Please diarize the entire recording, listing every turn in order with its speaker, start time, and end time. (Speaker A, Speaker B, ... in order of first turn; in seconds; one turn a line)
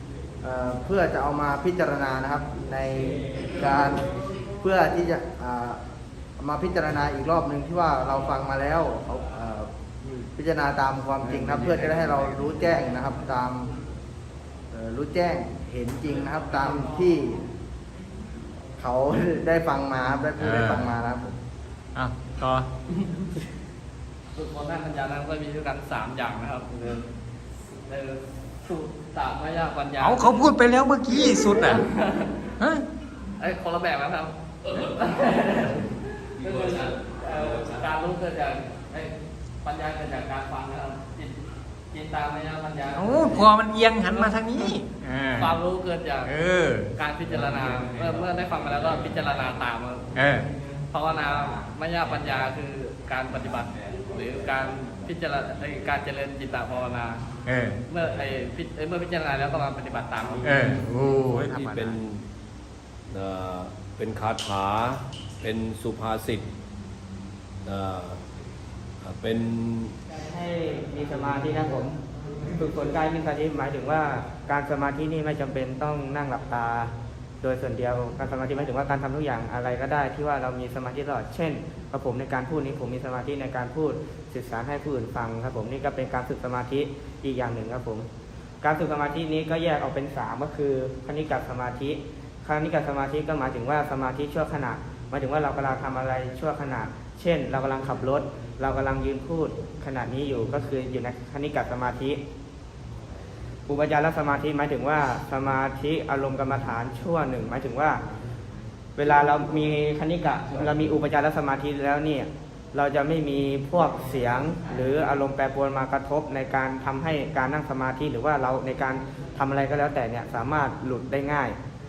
Speaker A: 0.4-4.0
Speaker A: 4.6-5.8
Speaker A: 6.4-13.7
Speaker B: 11.2-12.3
Speaker A: 14.7-17.4
Speaker A: 18.8-21.4
Speaker C: 20.4-20.9
Speaker C: 21.9-22.7
Speaker D: 24.3-27.0
Speaker D: 27.9-30.5
Speaker C: 30.0-31.8
Speaker D: 31.1-32.3
Speaker C: 32.6-32.8
Speaker D: 33.4-41.4
Speaker D: 41.9-43.5
Speaker C: 42.9-45.6
Speaker D: 44.1-44.8
Speaker D: 45.4-46.3
Speaker C: 46.2-46.9
Speaker D: 47.0-50.1
Speaker C: 50.1-50.5
Speaker D: 50.9-57.2
Speaker C: 57.5-57.8
Speaker D: 57.9-60.6
Speaker C: 60.4-62.0
Speaker B: 61.2-62.2
Speaker B: 63.1-66.5
Speaker B: 67.6-68.2
Speaker B: 69.0-70.0
Speaker E: 70.2-88.0
Speaker E: 88.6-102.2
Speaker E: 103.7-108.0
Speaker E: 109.0-121.6